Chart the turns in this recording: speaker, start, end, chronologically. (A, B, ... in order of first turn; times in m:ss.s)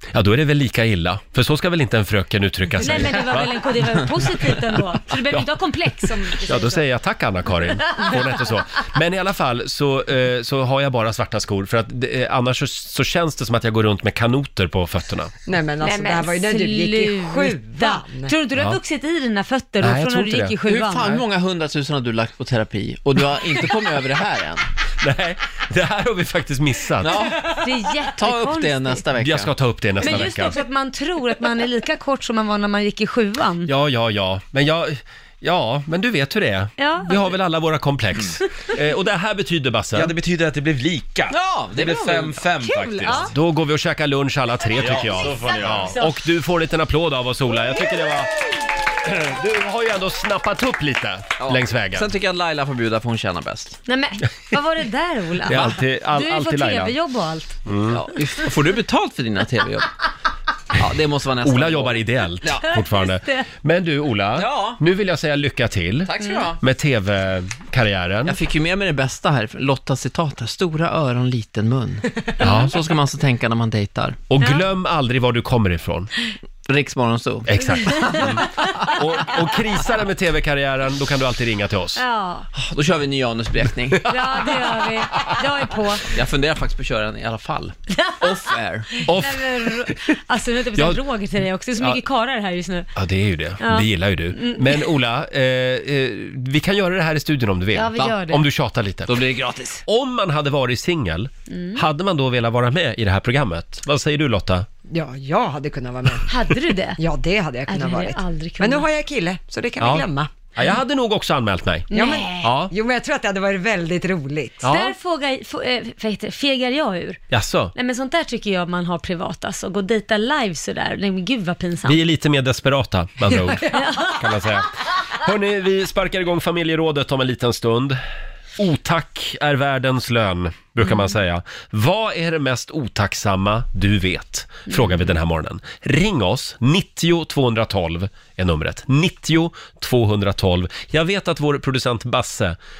0:00.1-0:03.6 A
0:02.8-0:06.8 B
0:06.4-0:15.3 A
0:07.9-0:08.4 B
0:15.5-0:18.3 C
0:15.8-0:21.2 B
0:19.8-0:20.6 A
0:20.6-0:24.7 D
0:25.0-0:27.2 A
0:27.0-0:29.5 D
0:27.4-0:29.0 B
0:29.2-0:30.6 A
0:30.0-0:33.7 B
0:33.7-0:40.1 A
0:36.8-0:37.3 B
0:39.9-0:43.3 E
0:41.3-0:43.3 D
0:43.3-0:52.1 A
0:44.8-0:46.0 E
0:51.4-0:53.8 D
0:53.9-0:57.6 B
0:55.5-0:56.9 A
0:57.7-0:58.0 A
0:57.9-0:59.9 D
1:00.7-1:02.7 D
1:01.4-1:08.4 A
1:02.8-1:03.5 B
1:04.4-1:04.8 D
1:06.1-1:06.6 D
1:08.3-1:14.2 D
1:12.4-1:12.7 A
1:12.4-1:12.7 B
1:14.3-1:16.1 A
1:14.4-1:14.7 B
1:16.7-1:18.7 D
1:17.5-1:22.0 A
1:17.7-1:19.4 B
1:22.0-1:22.5 B
1:22.6-1:24.5 D
1:24.1-1:26.1 B
1:26.1-1:29.0 D
1:27.9-1:32.9 B
1:29.0-1:30.0 A
1:33.0-1:39.1 A
1:33.6-1:34.9 B
1:37.7-1:38.5 B
1:39.1-1:39.8 D
1:39.9-1:44.7 A
1:41.5-1:41.8 B
1:44.9-1:50.3 C
1:46.3-1:47.0 B
1:47.7-1:48.9 B
1:49.8-1:52.7 A
1:51.9-1:52.5 B
1:51.9-1:54.6 C
1:54.6-1:55.0 A
1:54.6-1:57.2 B
1:57.3-1:57.7 A
1:57.8-2:02.0 B
2:01.8-2:08.0 A
2:03.3-2:03.8 C
2:03.7-2:04.4 B
2:08.6-2:22.6 A
2:10.8-2:11.1 B